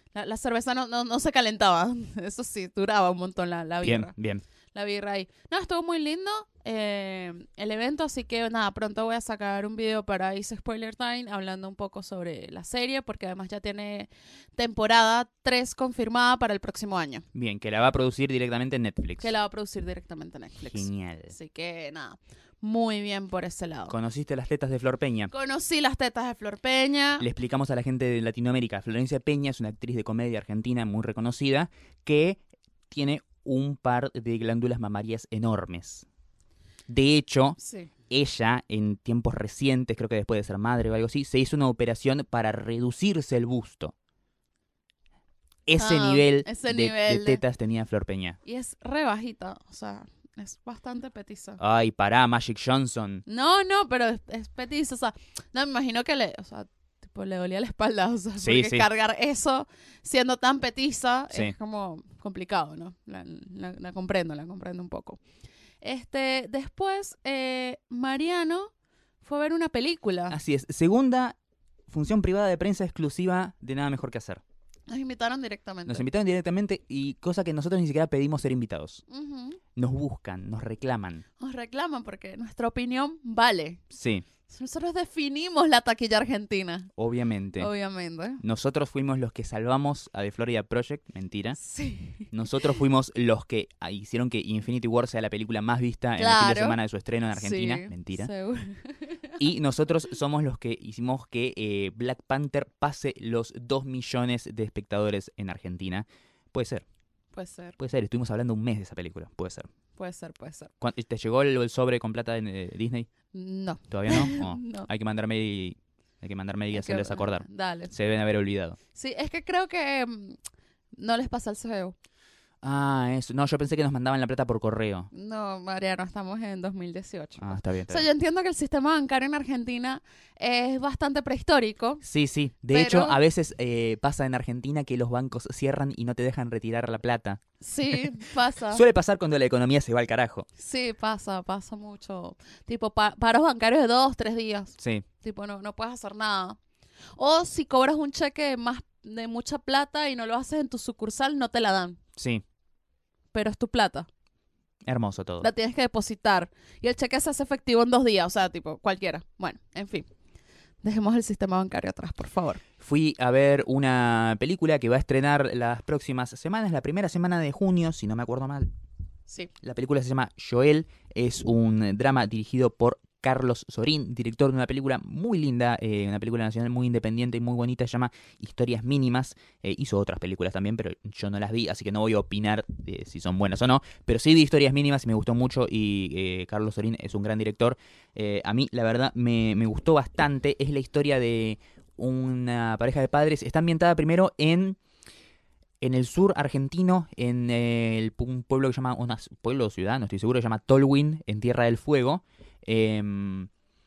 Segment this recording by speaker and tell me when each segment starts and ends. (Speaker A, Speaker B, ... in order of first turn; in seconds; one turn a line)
Speaker A: 0.1-4.1
Speaker B: 3.8-4.4
Speaker A: 4.7-17.2
Speaker B: 17.3-19.3
Speaker A: 19.2-23.9
Speaker B: 20.7-21.3
Speaker B: 23.9-25.3
Speaker A: 25.3-27.3
Speaker B: 27.2-36.0
Speaker B: 36.9-37.6
Speaker A: 37.6-37.9
Speaker B: 38.1-43.9
Speaker B: 45.7-48.4
Speaker A: 45.8-47.4
Speaker A: 48.4-51.6
Speaker B: 51.6-53.2
Speaker A: 53.2-65.2
Speaker B: 58.4-58.9
Speaker A: 65.8-68.7
Speaker A: 69.2-70.4
Speaker B: 70.3-71.3
Speaker B: 71.9-74.4
Speaker A: 74.9-76.0
Speaker B: 75.8-79.0
Speaker A: 79.1-79.6
Speaker B: 79.8-81.2
Speaker A: 81.4-83.8
Speaker B: 83.9-84.2
Speaker A: 84.5-86.9
Speaker B: 87.0-87.7
Speaker A: 87.6-88.4
Speaker B: 88.4-91.6
Speaker A: 91.6-92.3
Speaker B: 92.3-98.3
Speaker A: 96.2-96.8
Speaker A: 97.3-99.4
Speaker B: 99.4-106.8
Speaker A: 107.3-107.8
Speaker B: 107.8-109.7
Speaker A: 110.0-110.7
Speaker B: 110.8-113.1
Speaker A: 113.3-114.9
Speaker B: 113.9-118.8
Speaker A: 116.7-117.9
Speaker A: 118.9-120.4
Speaker A: 120.9-121.9
Speaker B: 122.6-125.1
Speaker A: 125.1-132.0
Speaker B: 127.4-128.1
Speaker B: 132.0-140.5
Speaker A: 132.7-133.2
Speaker A: 137.6-138.8
Speaker A: 140.6-146.6
Speaker B: 144.8-145.0
Speaker A: 147.2-152.0
Speaker B: 152.2-152.4
Speaker A: 153.3-154.1
Speaker B: 154.8-155.5
Speaker A: 155.4-160.1
Speaker A: 160.8-162.6
Speaker B: 162.8-168.7
Speaker B: 169.6-194.8
Speaker B: 195.8-203.5